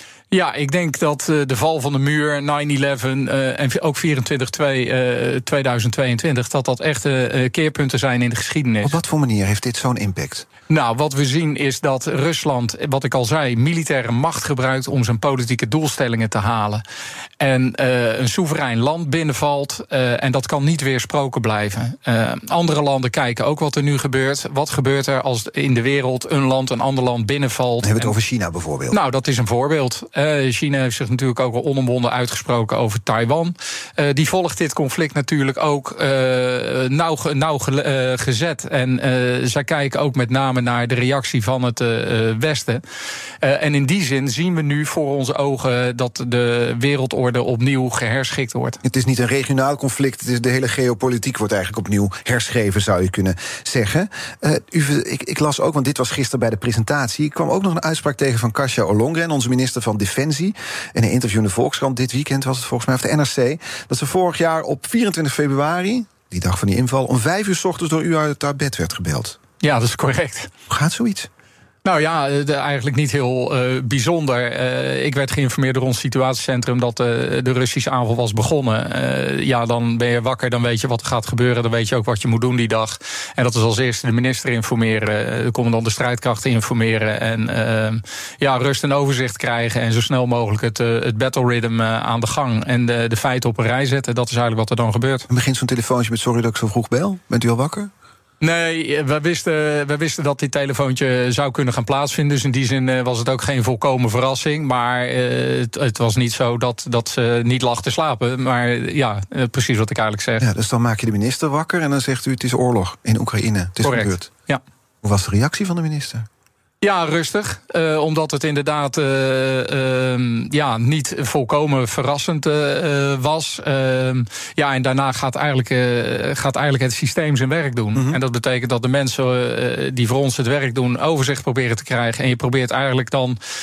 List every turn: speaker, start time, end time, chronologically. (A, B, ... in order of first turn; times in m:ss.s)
0:00.3-0:09.0 A
0:08.8-0:10.5 B
0:10.7-0:16.8 A
0:17.4-0:28.1 A
0:27.8-0:29.0 B
0:28.9-0:42.8 A
0:43.4-0:48.8 A
0:48.8-1:09.4 B
1:09.6-1:10.5 A
1:10.7-1:11.3 B
1:11.8-1:35.3 A
1:35.3-1:37.9 B
1:38.4-1:50.5 A
1:50.4-1:54.3 B
1:53.8-1:54.6 A
1:55.0-1:56.3 B
1:56.8-2:13.4 A